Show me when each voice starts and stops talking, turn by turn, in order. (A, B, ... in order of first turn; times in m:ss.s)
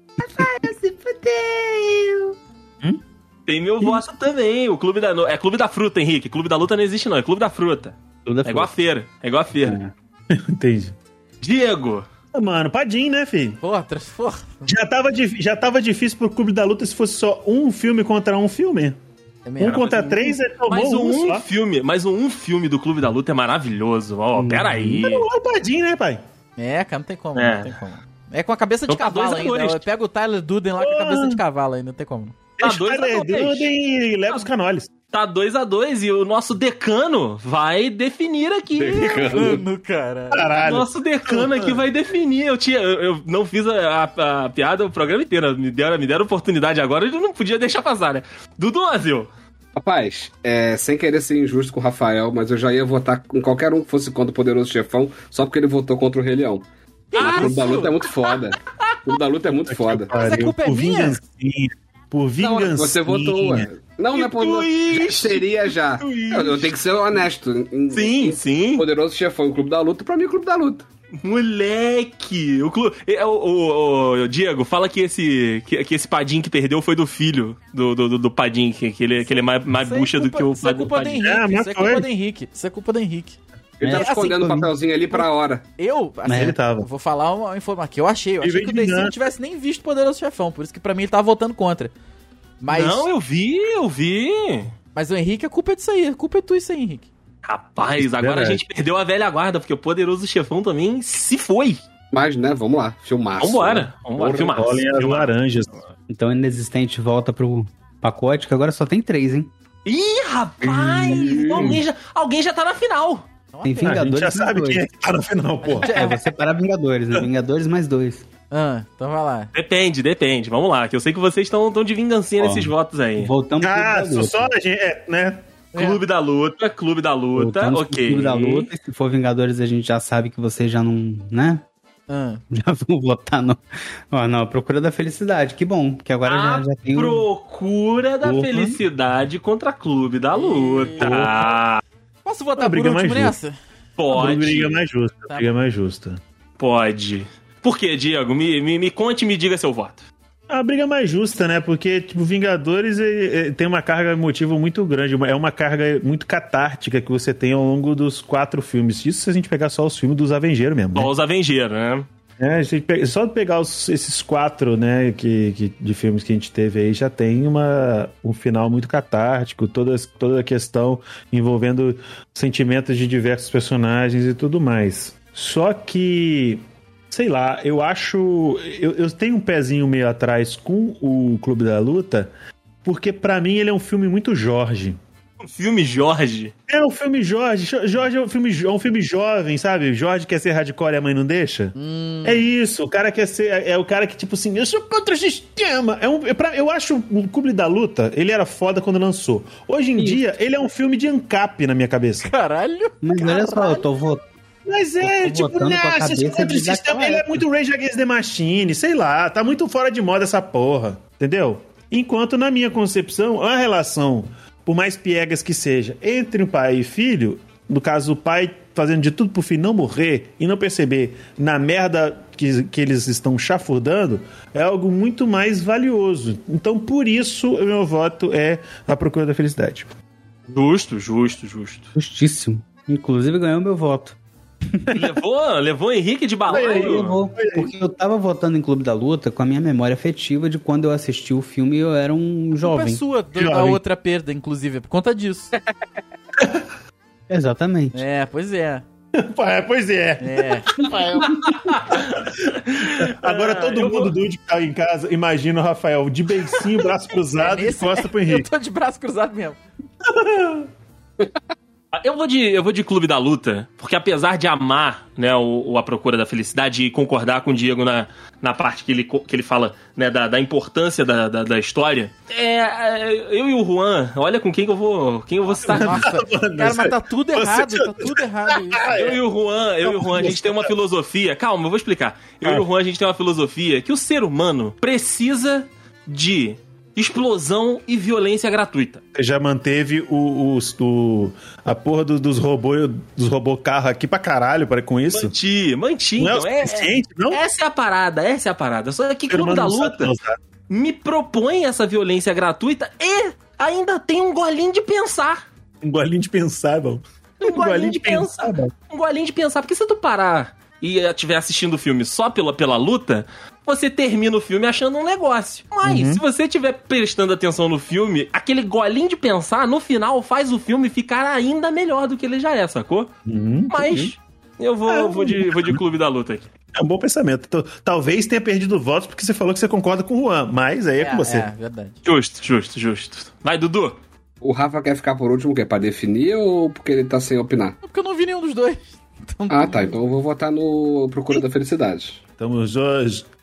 0:00.4-0:00.7 A
0:00.6-0:02.2 B
0:03.5-0:09.8 B
0:08.2-0:08.7 A
0:09.6-0:09.9 A
0:10.3-0:10.9 C
0:11.4-0:12.1 B
0:12.3-0:13.6 C
0:13.6-0:14.7 D
0:14.7-0:19.0 C
0:19.5-0:20.3 D
0:19.6-0:21.5 C
0:20.7-0:25.3 B
0:24.4-0:25.0 A
0:25.0-0:26.2 C
0:26.6-0:32.4 D
0:27.4-0:27.7 B
0:28.9-0:29.8 B
0:30.8-0:31.4 C
0:32.6-0:34.9 C
0:32.6-0:33.7 B
0:35.1-0:39.3 B
0:38.8-0:39.7 E
0:39.1-0:40.6 D
0:40.3-0:41.8 C
0:40.6-0:49.3 B
0:49.8-1:00.1 E
0:57.1-0:57.5 D
0:57.2-0:58.4 B
0:59.7-1:03.7 C
1:00.1-1:01.2 D
1:02.4-1:10.9 E
1:04.1-1:06.7 B
1:07.9-1:08.8 B
1:11.2-1:21.1 B
1:19.2-1:24.4 D
1:21.1-1:22.1 C
1:23.8-1:25.6 E
1:23.8-1:25.3 A
1:25.8-1:31.9 D
1:26.2-1:26.6 A
1:26.3-1:26.9 C
1:28.4-1:29.2 C
1:32.6-1:33.1 D
1:32.7-1:34.7 B
1:35.0-1:37.1 D
1:37.4-1:41.8 B
1:38.0-1:38.6 C
1:42.1-1:44.5 E
1:43.4-1:45.3 B
1:44.5-1:45.8 C
1:46.1-1:49.5 A
1:49.8-1:53.3 B
1:50.7-1:51.8 C
1:51.2-1:51.8 E
1:53.5-1:54.0 D
1:53.6-1:54.8 A
1:53.8-1:56.0 C
1:55.6-1:56.2 D
1:55.8-1:58.2 A
1:58.5-1:59.5 D
1:59.5-2:03.3 B
2:02.4-2:04.5 A
2:03.6-2:05.4 C
2:05.7-2:08.7 B
2:05.8-2:06.0 D
2:07.4-2:11.6 A
2:12.1-2:12.4 D
2:12.5-2:17.3 A
2:16.2-2:21.8 B
2:18.2-2:18.8 C
2:20.3-2:21.3 D
2:21.0-2:21.6 C
2:22.2-2:23.6 D
2:22.6-2:23.4 C
2:24.0-2:24.8 B
2:24.1-2:26.2 C
2:26.6-2:30.0 B
2:30.5-2:41.1 C
2:40.9-2:42.1 B
2:42.4-3:02.3 C
3:02.8-3:05.0 C
3:05.5-3:06.5 B
3:06.7-3:22.3 C
3:11.8-3:12.5 D
3:20.0-3:20.3 A
3:22.2-3:23.9 D
3:23.0-3:24.2 A
3:24.7-3:49.9 C
3:25.0-3:27.4 A
3:50.5-3:51.9 B
3:52.0-3:54.2 A
3:54.9-3:57.2 B
3:56.5-4:03.0 A
3:56.5-3:57.7 C
4:02.6-4:05.5 D
4:03.4-4:03.8 C
4:06.4-4:06.6 C
4:07.3-4:08.1 A
4:07.9-4:08.8 D
4:09.2-4:18.5 C
4:10.2-4:10.7 D
4:10.9-4:11.3 E
4:11.6-4:14.1 B
4:17.4-4:19.6 D
4:20.0-4:20.7 C
4:21.9-4:36.1 B
4:35.6-4:39.2 C
4:35.6-4:38.9 D
4:38.9-4:49.0 B
4:39.8-4:40.7 C
4:49.2-4:55.3 C
4:55.1-5:00.1 B
4:56.2-4:57.4 C
4:59.3-5:00.4 C
5:00.7-5:05.5 B
5:05.8-5:08.7 C
5:07.4-5:23.1 B
5:15.8-5:16.2 C
5:23.3-5:24.1 C
5:23.7-5:26.5 B
5:24.9-5:25.8 C
5:26.8-5:31.5 C
5:31.0-5:32.0 D
5:32.0-5:34.0 B
5:34.4-5:37.8 E
5:37.8-5:40.0 D
5:39.5-5:42.2 E
5:42.4-5:43.3 C